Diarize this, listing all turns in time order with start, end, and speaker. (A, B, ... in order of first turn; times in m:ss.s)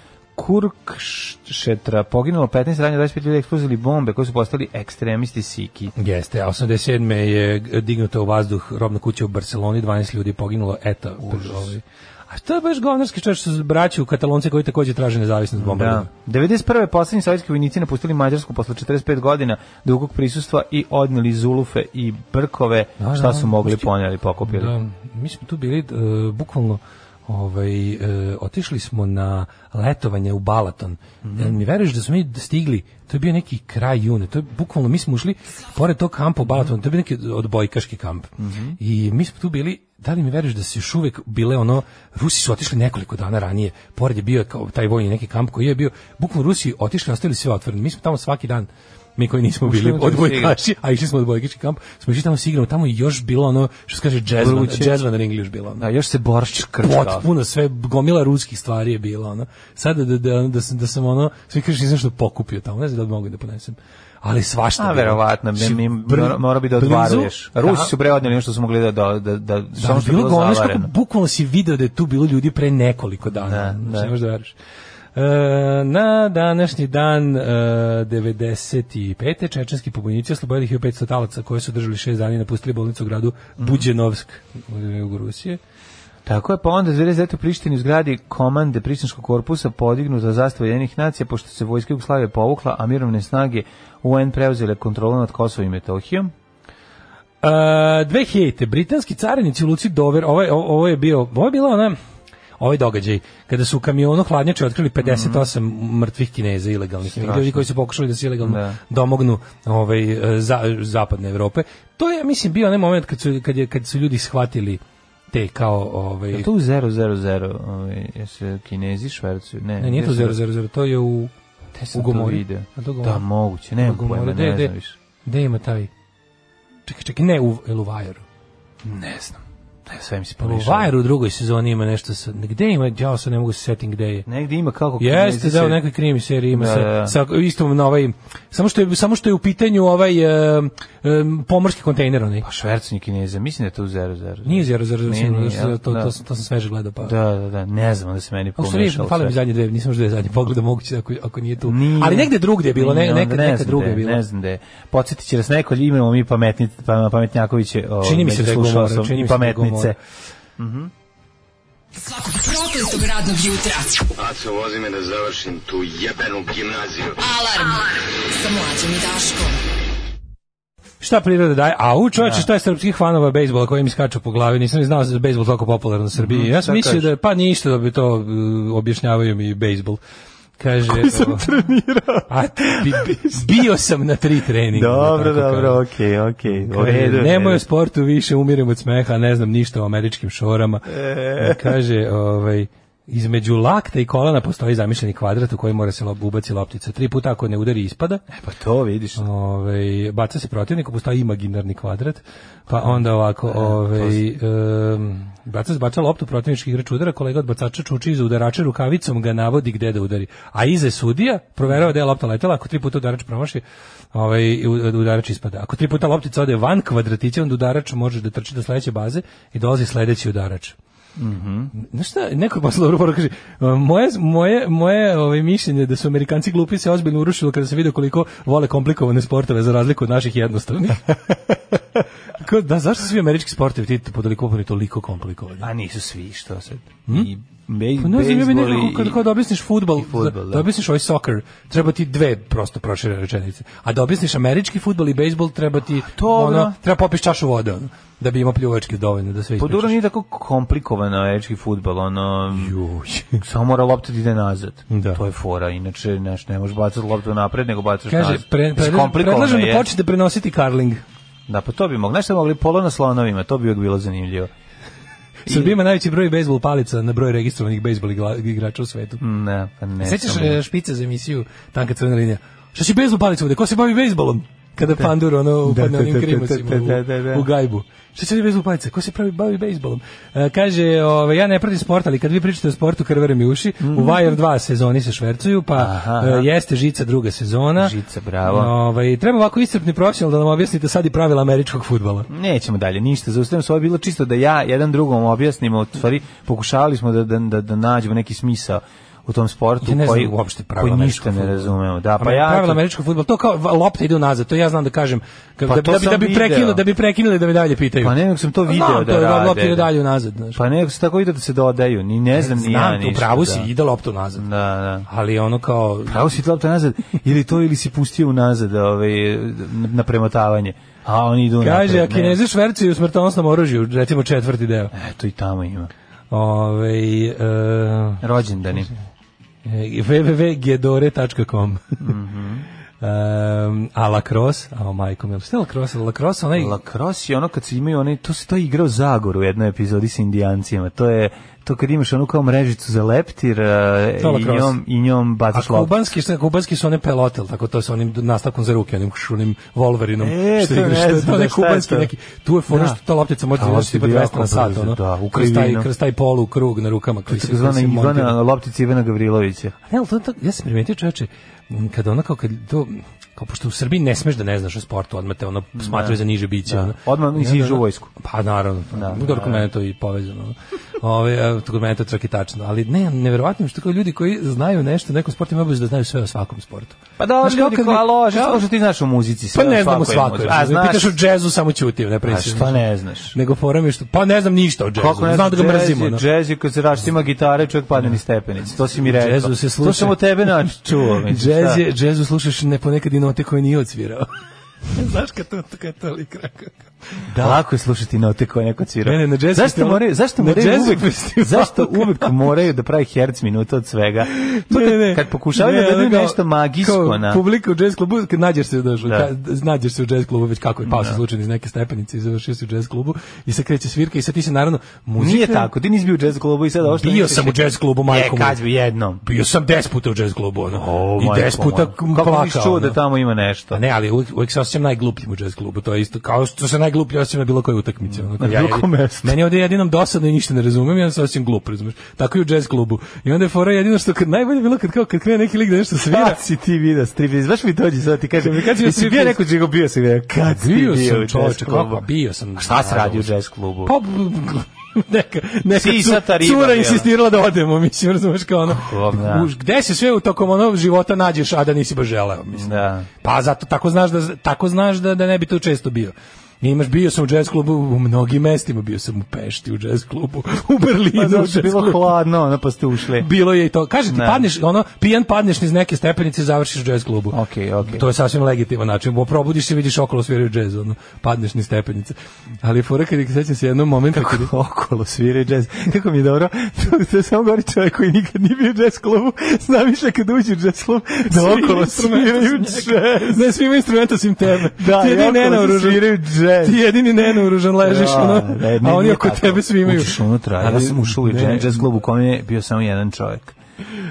0:00.3-0:05.9 A
0:05.9-0:16.1 B
0:11.2-0:11.7 A
0:15.6-0:24.7 A
0:23.0-0:23.9 B
0:24.4-0:55.8 B
0:31.2-0:31.6 A
0:38.4-0:38.8 A
0:49.6-0:50.6 A
0:54.3-0:55.0 A
0:55.8-0:57.3 A
0:56.8-1:07.9 B
1:04.8-1:10.9 A
1:09.8-1:14.5 B
1:13.4-1:14.1 A
1:15.1-1:25.6 B
1:23.6-1:23.9 A
1:26.3-1:36.3 A
1:37.4-1:42.0 B
1:42.6-1:54.8 B
1:45.0-1:45.5 A
1:47.1-1:47.7 A
1:48.4-1:48.8 A
1:55.3-1:56.5 B
1:56.3-2:00.4 A
1:59.8-2:04.7 B
2:01.9-2:05.0 A
2:05.2-2:05.9 B
2:06.9-2:08.2 B
2:08.8-2:10.9 A
2:10.4-2:14.3 B
2:14.3-2:15.9 A
2:15.0-2:22.4 B
2:16.5-2:17.2 A
2:22.4-2:26.1 A
2:24.4-2:27.1 B
2:27.0-2:29.4 A
2:28.6-2:34.2 B
2:31.6-2:40.0 A
2:38.0-2:39.9 B
2:40.6-2:40.9 A
2:41.9-2:44.1 C
2:44.1-2:47.2 D
2:47.2-2:49.6 C
2:51.0-3:00.0 B
2:52.2-2:52.5 A
2:56.1-2:57.1 A
3:00.6-3:01.5 B
3:00.9-3:03.6 A
3:02.3-3:05.8 B
3:04.7-3:07.6 A
3:06.5-3:18.2 B
3:10.9-3:11.7 A
3:18.3-3:19.2 A
3:19.2-3:33.6 B
3:22.7-3:24.3 A
3:34.1-3:40.8 B
3:41.2-3:41.7 A
3:41.7-3:55.7 B
3:55.6-3:59.3 A
3:58.0-4:09.9 B
3:59.9-4:00.7 A
4:05.9-4:06.8 A
4:09.6-4:12.7 A
4:12.5-4:13.4 B
4:13.4-4:19.9 A
4:14.9-4:15.2 B
4:18.1-4:21.0 B
4:21.5-4:24.5 A
4:25.4-4:29.2 B
4:25.5-4:25.7 A
4:29.2-4:30.6 A
4:30.0-4:52.3 B
4:34.9-4:37.5 A
4:43.8-4:44.3 A
4:45.8-4:46.5 A
4:47.8-4:48.7 A
4:52.3-5:02.8 A
4:59.8-5:10.6 B
5:05.6-5:06.8 A
5:08.0-5:09.9 A
5:10.6-5:13.7 A
5:12.4-5:14.4 B
5:14.4-5:15.1 A
5:15.1-5:16.3 B
5:16.0-5:22.4 A
5:21.6-5:24.9 B
5:24.9-5:25.9 A
5:26.3-5:28.2 B
5:28.2-5:28.9 A
5:29.6-5:32.0 B
5:32.0-5:32.6 A
5:33.0-5:36.8 B
5:36.6-5:46.0 A
5:44.2-5:44.8 B
5:45.5-5:58.4 B
5:50.2-5:52.1 A
5:52.7-5:53.0 A
5:53.6-5:55.9 A
5:57.3-5:59.7 A
5:59.9-6:18.6 B
6:05.7-6:08.1 A
6:08.9-6:09.6 A
6:17.2-6:21.2 A
6:19.5-6:22.8 B
6:22.2-6:23.3 A
6:23.3-6:26.2 B
6:25.0-6:31.8 A
6:29.0-6:34.3 B
6:34.9-6:37.6 B
6:37.3-6:47.4 A
6:39.0-6:42.3 B
6:44.3-6:55.7 B
6:49.0-6:49.3 A
6:50.8-6:51.2 A
6:55.2-6:59.2 A
6:56.9-6:58.6 B
6:59.2-7:03.0 B
7:00.7-7:03.8 A
7:03.7-7:16.4 B
7:08.1-7:09.4 A
7:16.0-7:23.9 A
7:18.4-7:19.4 B
7:20.4-7:23.3 B
7:23.8-7:42.0 B
7:25.7-7:27.1 A
7:28.6-7:29.5 A
7:32.5-7:33.1 A
7:41.1-7:43.3 A
7:43.2-7:54.5 B
7:44.1-7:44.4 A
7:47.3-7:48.0 A
7:54.1-8:03.4 A
8:01.3-8:11.9 B
8:04.5-8:13.6 A